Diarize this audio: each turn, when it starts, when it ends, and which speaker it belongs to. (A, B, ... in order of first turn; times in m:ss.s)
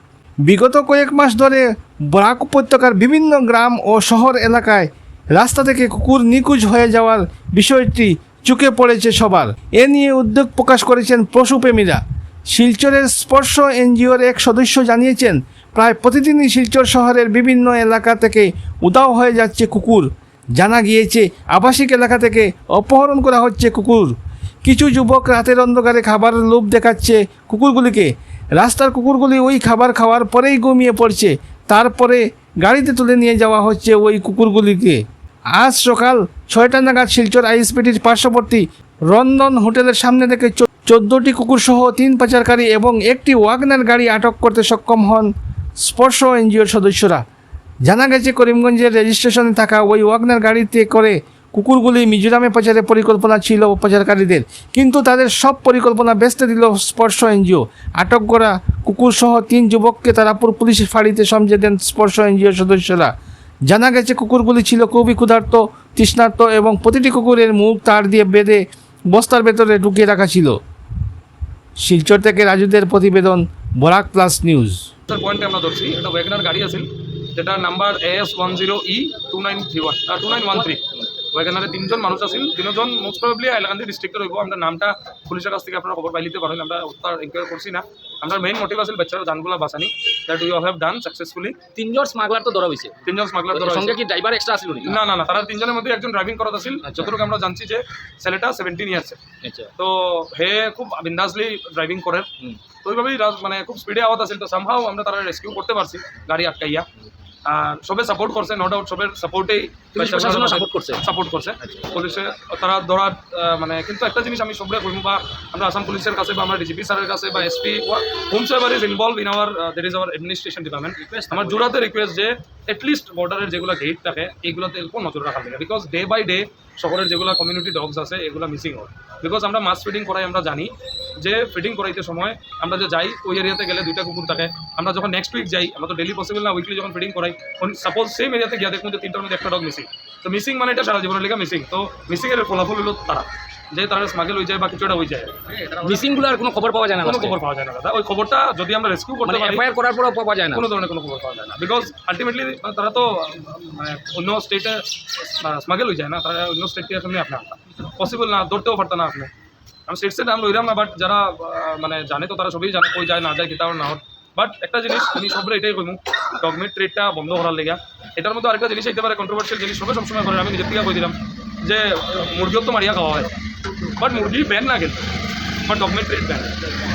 0:00.5-0:35.0 A
0:35.6-0:45.3 A
0:45.8-0:47.2 A
0:47.8-1:03.1 A
1:03.7-1:10.6 A
1:11.8-1:14.8 A
1:15.1-1:31.6 B
1:31.8-1:33.0 C
1:33.0-1:34.0 B
1:33.5-1:35.0 C
1:34.8-1:39.2 B
1:36.9-1:37.1 C
1:39.4-1:39.7 C
1:39.8-1:42.3 B
1:42.8-1:46.9 B
1:47.4-2:26.0 B
1:50.0-1:51.1 C
1:51.6-1:51.9 C
2:01.0-2:01.7 C
2:25.8-2:27.4 C
2:27.0-2:29.7 B
2:29.2-2:30.7 C
2:30.5-2:39.3 B
2:39.9-2:53.4 B
2:53.9-2:55.1 B
2:55.7-2:56.6 B